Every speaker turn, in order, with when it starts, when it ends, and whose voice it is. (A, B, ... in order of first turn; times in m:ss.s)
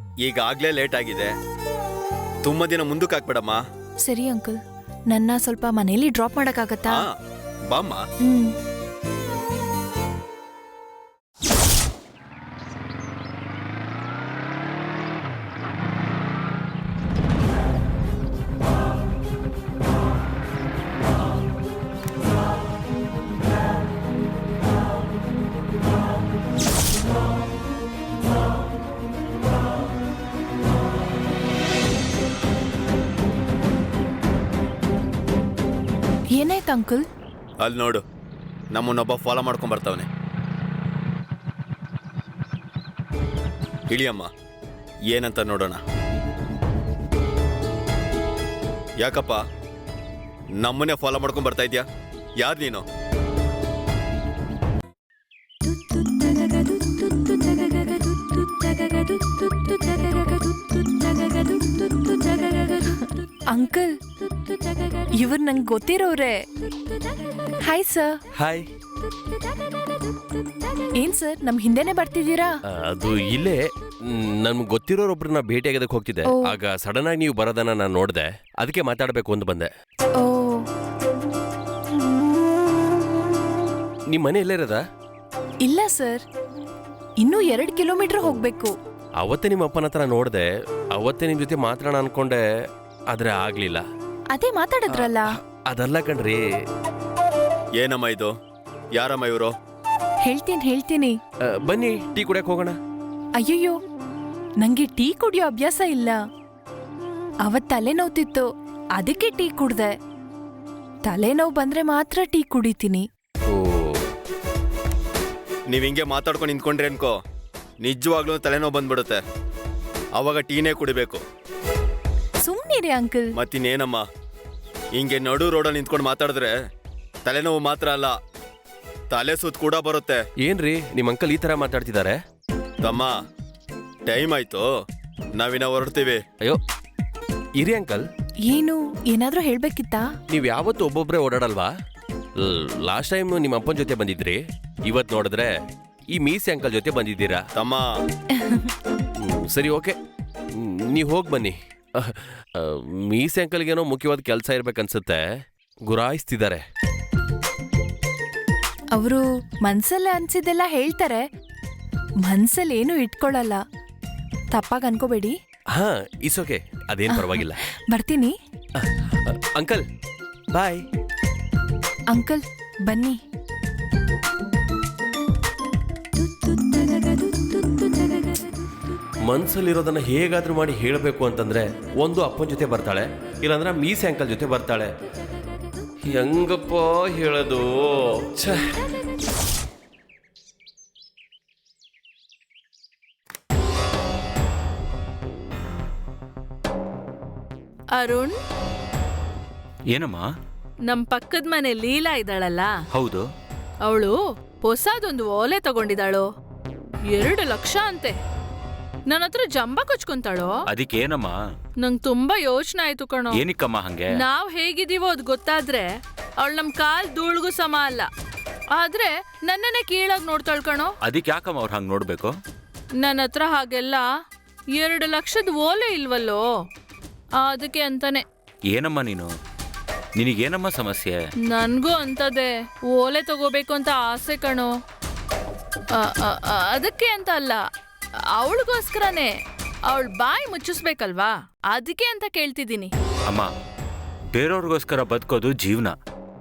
0:00.2-0:01.3 A
0:02.4-0:03.6 A
0:04.0-0:04.6 B
0:05.1-0:07.0 B
0:07.7-0:08.0 A
0:08.2-0:08.5 B
0:36.4-0:37.0 B
0:37.6-0:38.0 A
0:38.7-0:40.1 A
0:43.9-0:44.3 A
0:45.1-0:45.8 A
0:49.0-0:49.4 A
0:50.6-0:51.9 A
0:52.4-0:52.8 A
1:03.5-1:03.9 B
1:05.2-1:06.4 B
1:07.6-1:08.2 B
1:08.4-1:08.7 C
1:11.0-1:12.6 B
1:12.7-1:19.7 C
1:16.2-1:16.6 B
1:20.2-1:20.7 B
1:24.1-1:24.8 C
1:25.6-1:26.2 B
1:27.2-1:28.7 B
1:29.2-1:32.4 C
1:33.1-1:33.8 C
1:34.3-1:35.3 B
1:34.9-1:36.4 C
1:37.8-1:38.3 A
1:38.9-1:39.5 A
1:40.2-1:41.2 B
1:41.5-1:42.8 C
1:43.4-1:43.8 B
1:44.6-1:46.2 B
1:47.4-1:48.5 B
1:49.0-1:49.9 B
1:51.0-1:53.1 B
1:53.5-1:54.0 C
1:55.7-1:57.2 A
1:57.8-1:59.2 A
2:00.2-2:01.2 A
2:02.4-2:03.3 B
2:03.4-2:04.0 A
2:05.0-2:06.5 A
2:07.2-2:08.2 A
2:09.1-2:10.2 A
2:10.4-2:12.2 C
2:12.8-2:13.1 A
2:14.1-2:14.7 A
2:15.4-2:16.2 A
2:17.6-2:18.0 C
2:18.5-2:20.1 B
2:20.3-2:21.7 C
2:22.4-2:25.5 C
2:26.1-2:27.5 C
2:27.6-2:28.0 A
2:28.4-2:28.7 B
2:29.2-2:30.0 C
2:30.6-2:35.2 C
2:35.9-2:36.6 C
2:39.0-2:41.2 B
2:42.2-2:43.6 B
2:44.5-2:45.4 B
2:45.7-2:47.6 C
2:47.1-2:48.4 B
2:48.8-2:49.8 C
2:50.5-2:50.9 C
2:52.1-2:53.2 B
2:59.2-3:04.9 C
3:06.1-3:08.8 C
3:18.0-3:18.4 D
3:19.9-3:20.3 E
3:20.9-3:22.7 D
3:22.9-3:23.3 E
3:23.8-3:26.3 D
3:27.1-3:28.2 D
3:29.1-3:30.6 D
3:30.7-3:31.4 E
3:31.8-3:33.4 D
3:33.3-3:34.2 E
3:34.2-3:35.9 D
3:36.4-3:38.1 D
3:38.8-3:41.0 D
3:41.0-3:42.3 E
3:43.0-3:44.0 D
3:44.8-3:46.4 D
3:47.4-3:48.2 D
3:48.7-3:49.3 E
3:50.2-3:51.2 E
3:51.5-3:54.7 D
3:56.0-3:57.6 D
3:58.4-3:59.3 D
3:59.9-4:02.9 D
4:04.3-4:06.0 E